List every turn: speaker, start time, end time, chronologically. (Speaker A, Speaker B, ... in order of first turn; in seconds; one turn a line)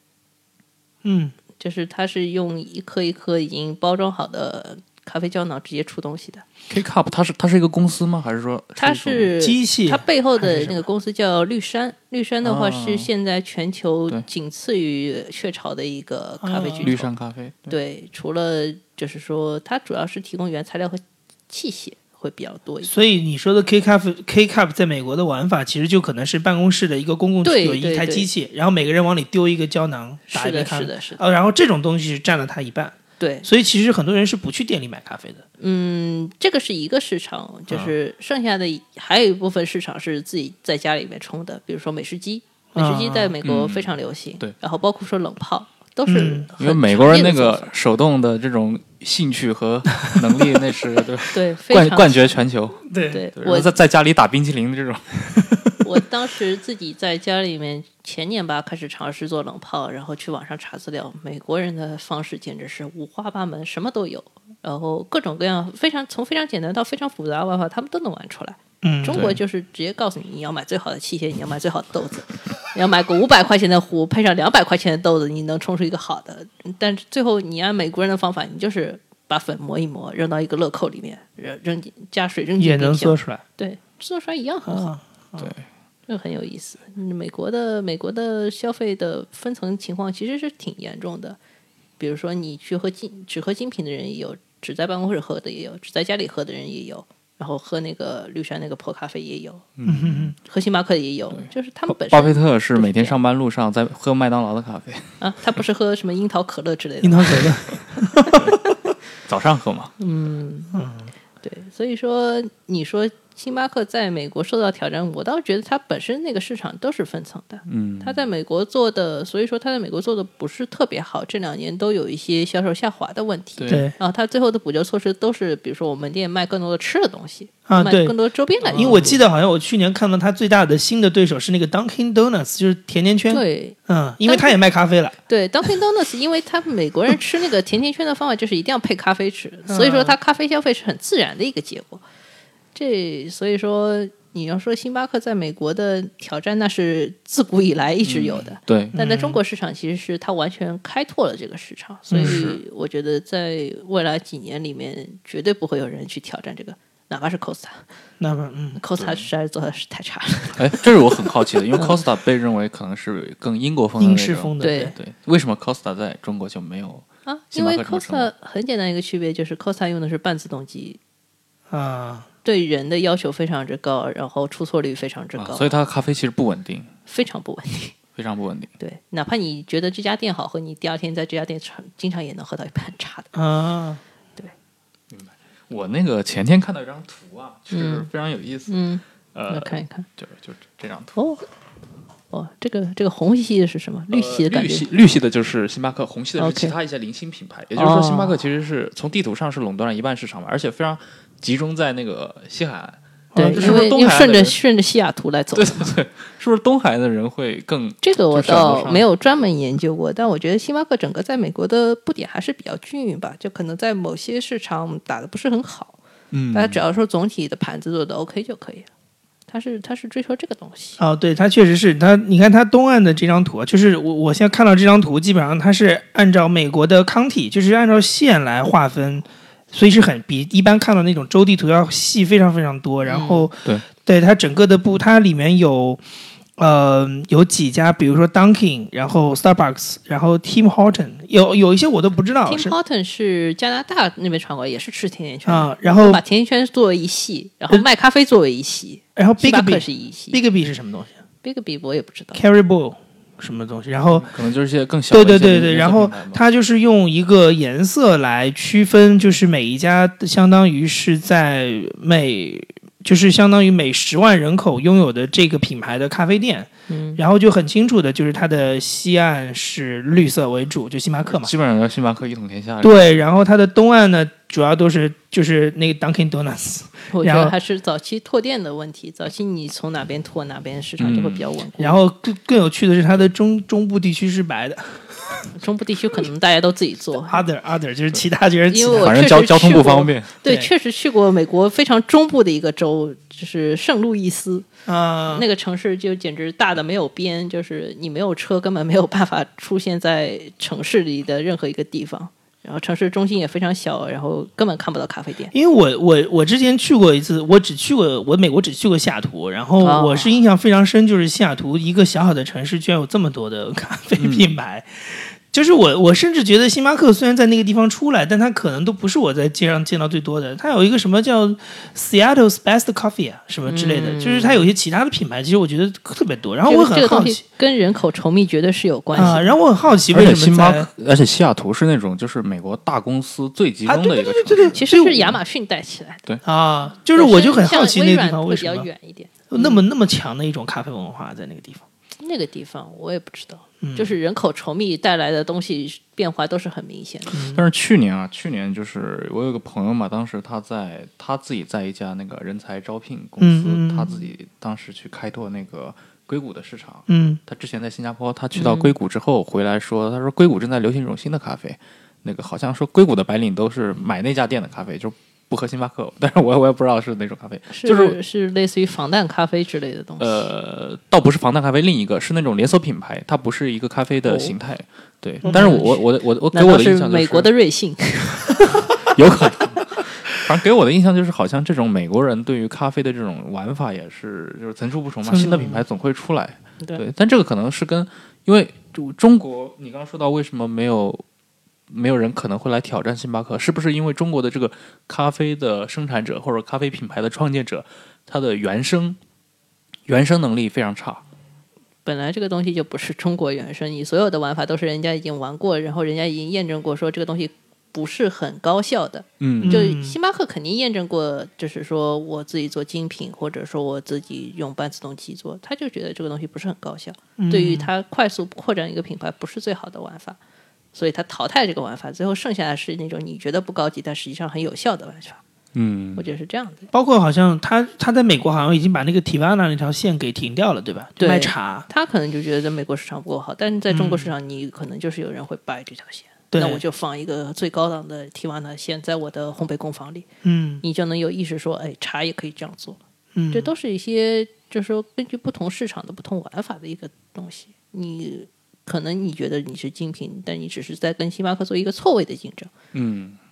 Speaker A: 1.0-1.4
Speaker B: 1.6-6.5
Speaker C: 6.7-9.3
Speaker B: 8.8-17.1
Speaker A: 9.4-10.8
Speaker C: 12.4-13.1
Speaker A: 16.4-16.9
Speaker C: 16.8-17.8
Speaker B: 17.7-22.9
Speaker A: 22.8-35.4
Speaker B: 27.4-28.3
Speaker B: 30.3-31.2
Speaker B: 33.2-33.5
Speaker B: 35.6-47.7
Speaker A: 42.8-43.4
Speaker C: 43.5-44.5
Speaker A: 46.1-46.5
Speaker C: 46.6-55.7
Speaker B: 51.3-52.4
Speaker A: 52.9-53.2
Speaker B: 53.1-53.7
Speaker B: 55.8-84.9
Speaker A: 68.8-69.3
Speaker C: 69.1-69.4
Speaker A: 82.6-83.4
Speaker A: 84.7-85.5
Speaker C: 85.4-85.7
Speaker B: 86.1-91.4
Speaker B: 92.0-99.7
Speaker C: 99.8-100.3
Speaker A: 99.8-100.3
Speaker B: 100.5-103.2
Speaker C: 101.3-105.2
Speaker B: 105.2-107.7
Speaker A: 107.0-108.5
Speaker C: 109.2-110.0
Speaker B: 110.0-110.8
Speaker A: 110.7-111.1
Speaker B: 111.4-129.1
Speaker C: 117.7-118.2
Speaker C: 123.6-123.9
Speaker A: 123.7-124.0
Speaker A: 127.7-128.2
Speaker C: 128.7-129.2
Speaker A: 128.7-135.2
Speaker B: 133.3-134.6
Speaker B: 135.3-142.0
Speaker A: 139.7-140.2
Speaker B: 142.8-157.9
Speaker C: 148.1-148.9
Speaker A: 148.9-149.4
Speaker A: 152.1-152.4
Speaker C: 152.2-152.6
Speaker A: 158.2-158.8
Speaker B: 158.8-161.0
Speaker C: 159.0-159.3
Speaker C: 160.6-168.3
Speaker B: 161.7-162.0
Speaker A: 164.0-164.9
Speaker B: 164.6-164.9
Speaker B: 167.3-171.0
Speaker A: 171.7-172.3
Speaker B: 172.4-175.7
Speaker C: 175.4-176.9
Speaker B: 177.1-178.0
Speaker C: 178.2-178.7
Speaker B: 178.8-183.3
Speaker A: 183.3-184.0
Speaker C: 185.1-188.8
Speaker B: 187.7-188.1
Speaker B: 188.7-190.1
Speaker C: 189.3-191.2
Speaker B: 191.2-191.4
Speaker B: 192.3-194.9
Speaker C: 194.1-204.6
Speaker B: 196.4-196.8
Speaker B: 197.8-198.4
Speaker A: 203.3-203.9
Speaker B: 203.4-205.9
Speaker C: 205.5-209.1
Speaker B: 208.0-216.0
Speaker C: 216.3-216.8
Speaker B: 216.5-218.9
Speaker B: 219.5-221.0
Speaker A: 221.0-236.0
Speaker B: 233.1-233.5
Speaker A: 236.6-242.7
Speaker B: 242.5-250.4
Speaker A: 245.5-246.2
Speaker A: 249.2-251.2
Speaker B: 251.4-252.4
Speaker A: 252.3-254.3
Speaker C: 254.1-256.4
Speaker A: 255.1-271.5
Speaker B: 266.9-267.2
Speaker C: 271.3-273.1
Speaker A: 272.8-277.5
Speaker B: 277.1-282.0
Speaker C: 281.0-281.5
Speaker A: 281.8-285.5
Speaker B: 285.5-287.5
Speaker A: 287.3-289.2
Speaker B: 288.7-294.7
Speaker C: 289.0-290.3
Speaker A: 290.4-290.7
Speaker A: 294.9-295.5
Speaker B: 295.3-305.5
Speaker A: 305.5-327.4
Speaker B: 309.8-310.3
Speaker C: 314.2-314.5
Speaker B: 323.7-324.7
Speaker B: 326.7-329.5
Speaker A: 329.1-330.9
Speaker C: 330.1-334.8
Speaker A: 333.9-335.4
Speaker B: 334.7-336.2
Speaker A: 336.4-338.9
Speaker B: 337.1-339.8
Speaker A: 339.5-341.8
Speaker B: 342.2-347.4
Speaker A: 343.8-344.1
Speaker A: 347.3-347.6
Speaker C: 347.5-368.2
Speaker A: 353.4-354.2
Speaker A: 357.1-357.4
Speaker B: 358.6-358.9
Speaker B: 367.7-370.5
Speaker C: 370.2-377.5
Speaker B: 374.3-374.5
Speaker A: 375.4-375.9
Speaker B: 375.4-378.9
Speaker C: 379.0-391.2
Speaker A: 385.3-385.8
Speaker C: 391.9-399.2
Speaker C: 400.1-401.2
Speaker B: 402.1-420.4
Speaker C: 409.4-409.8
Speaker A: 409.6-410.2
Speaker A: 417.4-417.9
Speaker B: 420.9-425.4
Speaker C: 425.8-426.2
Speaker B: 426.2-426.9
Speaker A: 426.9-431.9
Speaker B: 431.2-440.3
Speaker A: 433.9-434.3
Speaker A: 436.5-436.8
Speaker A: 440.4-440.8
Speaker B: 440.8-443.0
Speaker A: 443.4-443.7
Speaker B: 443.5-452.7
Speaker C: 452.9-453.4